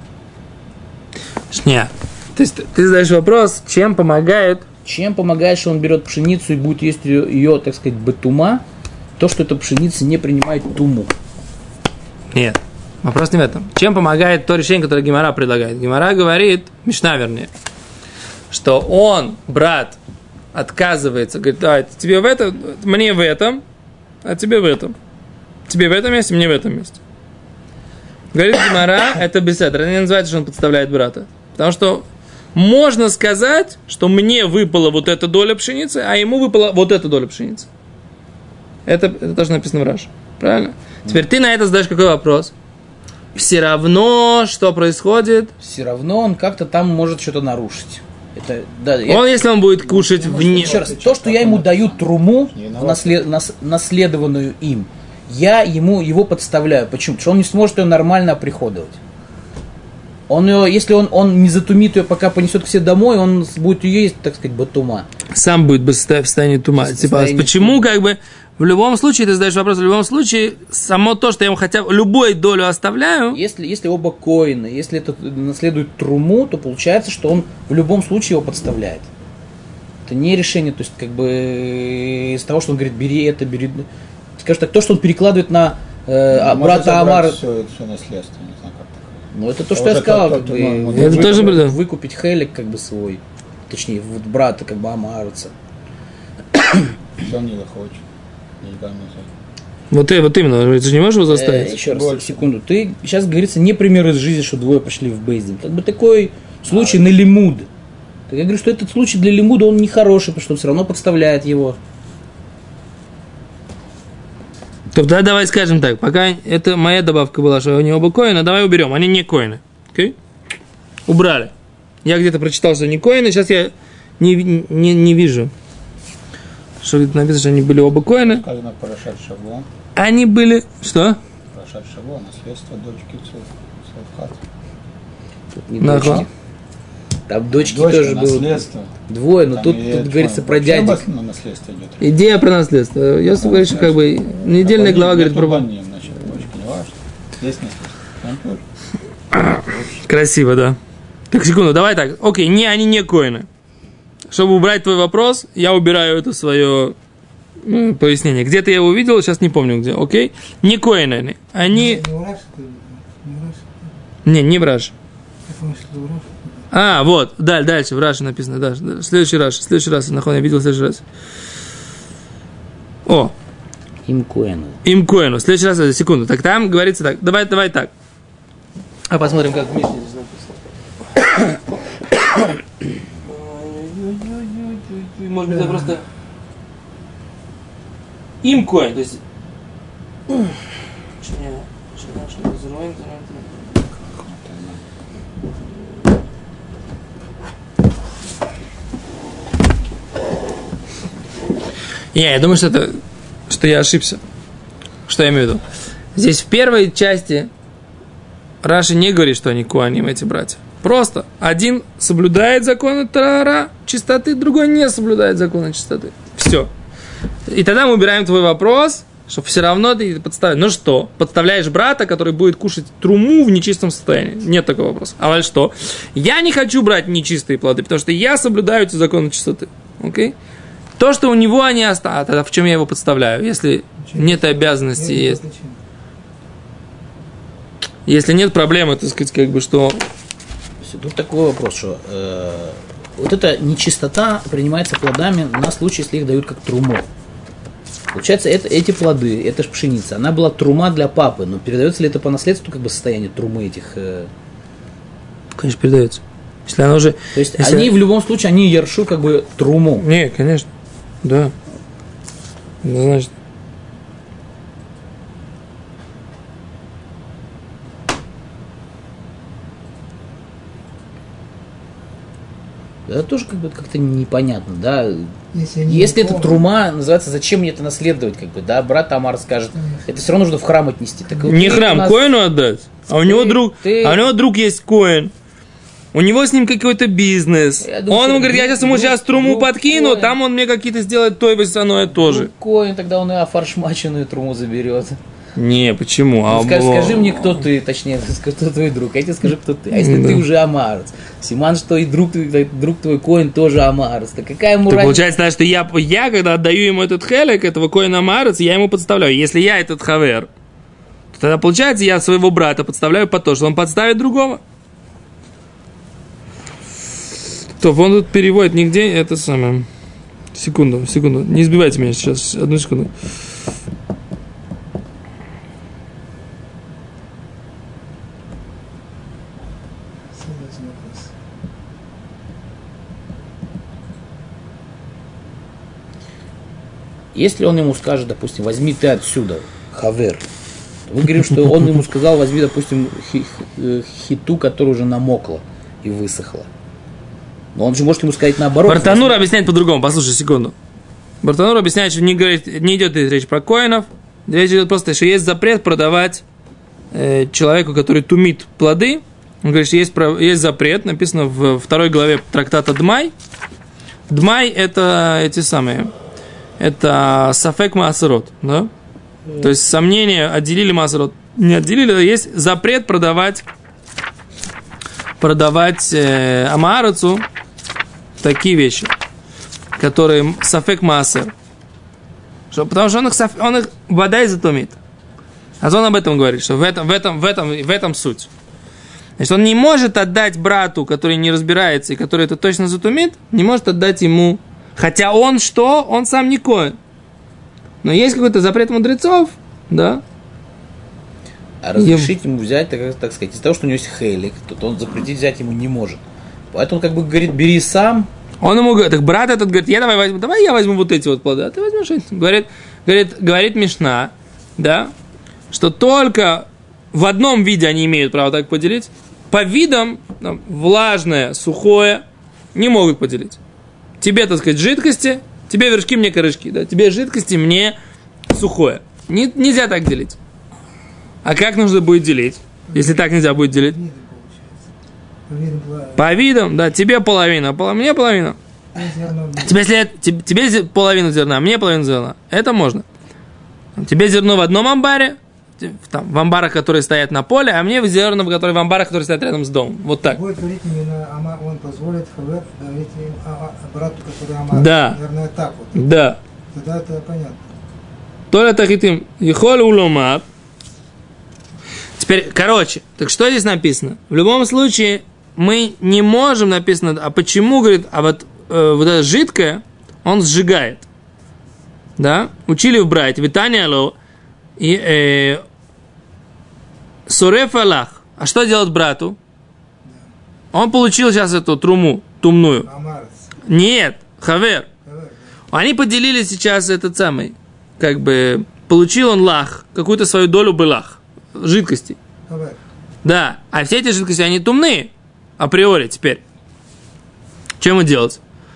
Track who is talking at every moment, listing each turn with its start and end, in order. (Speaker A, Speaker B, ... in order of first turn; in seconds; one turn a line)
Speaker A: 1.5-4.6
Speaker B: 4.8-8.6
Speaker B: 9.2-11.1
Speaker A: 12.3-17.5
Speaker A: 18.5-20.0
Speaker A: 20.5-23.6
Speaker A: 24.2-24.9
Speaker A: 25.7-27.0
Speaker A: 28.3-37.7
Speaker A: 38.9-42.5
Speaker A: 43.3-45.5
Speaker B: 45.6-59.0
Speaker A: 49.1-50.9
Speaker C: 49.9-53.2
Speaker B: 60.3-65.1
Speaker A: 65.3-73.4
Speaker B: 66.8-67.8
Speaker B: 73.3-79.1
Speaker B: 80.0-87.4
Speaker C: 86.3-91.6
Speaker B: 89.3-95.5
Speaker A: 91.0-91.8
Speaker C: 97.2-98.0
Speaker C: 98.6-99.3
Speaker A: 99.9-101.7
Speaker B: 101.2-107.7
Speaker C: 101.6-102.5
Speaker C: 106.7-107.0
Speaker B: 108.3-111.8
Speaker A: 114.9-120.2
Speaker A: 121.1-121.5
Speaker A: 122.0-125.5
Speaker A: 126.8-128.4
Speaker C: 128.2-129.7
Speaker A: 129.9-131.2
Speaker C: 131.5-134.4
Speaker B: 135.5-136.3
Speaker A: 135.8-136.2
Speaker B: 137.3-141.0
Speaker C: 137.5-142.1
Speaker A: 142.0-145.6
Speaker C: 143.3-148.6
Speaker A: 149.3-150.8
Speaker C: 149.5-149.8
Speaker A: 151.3-153.5
Speaker A: 154.3-156.9
Speaker A: 157.6-162.0
Speaker D: 161.7-163.9
Speaker A: 164.2-164.9
Speaker D: 165.5-166.7
Speaker A: 166.7-171.0
Speaker A: 173.1-173.3
Speaker B: 174.1-174.8
Speaker A: 174.8-177.9
Speaker A: 179.1-180.6
Speaker A: 183.2-186.1
Speaker A: 188.4-189.2
Speaker A: 191.2-193.7
Speaker A: 202.1-203.0
Speaker A: 203.5-204.2
Speaker A: 205.1-205.6
Speaker A: 206.1-207.5
Speaker A: 208.6-216.7
Speaker A: 217.5-230.3
Speaker A: 231.0-235.4
Speaker D: 234.0-235.8
Speaker A: 238.1-240.0
Speaker B: 240.8-247.1
Speaker B: 248.1-254.3
Speaker A: 255.6-257.9
Speaker B: 257.3-260.0
Speaker A: 260.0-260.7
Speaker A: 261.2-261.5
Speaker A: 262.8-263.3
Speaker B: 273.1-275.3
Speaker D: 275.5-276.6
Speaker B: 275.9-282.2
Speaker D: 279.7-280.3
Speaker A: 281.4-285.3
Speaker B: 283.1-284.2
Speaker A: 286.1-292.5
Speaker B: 287.8-290.4
Speaker B: 292.1-295.2
Speaker A: 295.6-297.6
Speaker B: 296.5-305.3
Speaker A: 299.9-300.4
Speaker A: 304.9-310.5
Speaker A: 311.3-314.6
Speaker A: 317.8-319.9
Speaker A: 320.5-323.1
Speaker D: 330.3-331.3
Speaker B: 337.3-340.4
Speaker B: 341.1-346.7
Speaker B: 347.7-349.4
Speaker A: 348.9-350.7
Speaker A: 351.4-356.4
Speaker A: 357.1-363.3
Speaker A: 364.3-366.1
Speaker A: 366.8-368.9
Speaker A: 369.6-373.6
Speaker A: 375.4-377.4
Speaker A: 378.4-379.1
Speaker A: 380.0-381.5
Speaker A: 382.7-385.0
Speaker A: 385.8-388.5
Speaker A: 389.4-397.0
Speaker A: 398.0-400.2
Speaker B: 401.8-408.3
Speaker A: 402.0-402.3
Speaker A: 408.6-415.1
Speaker A: 415.7-423.6
Speaker A: 424.2-427.9
Speaker A: 428.5-430.4
Speaker A: 431.4-434.0
Speaker D: 432.9-434.9
Speaker D: 435.5-436.3
Speaker A: 436.1-438.6
Speaker D: 438.9-439.8
Speaker A: 439.6-443.0
Speaker A: 444.0-450.4
Speaker D: 450.2-456.0
Speaker A: 454.7-455.2
Speaker A: 455.9-456.4
Speaker D: 456.7-457.7
Speaker A: 458.5-460.4
Speaker A: 462.2-471.1
Speaker A: 472.2-474.1
Speaker A: 474.8-475.6
Speaker A: 477.3-479.4
Speaker D: 480.0-480.3
Speaker A: 480.7-482.9
Speaker D: 482.8-483.5
Speaker A: 483.6-484.9
Speaker D: 485.0-485.5
Speaker A: 485.7-492.2
Speaker D: 492.5-492.8
Speaker A: 493.2-496.4
Speaker A: 497.8-498.4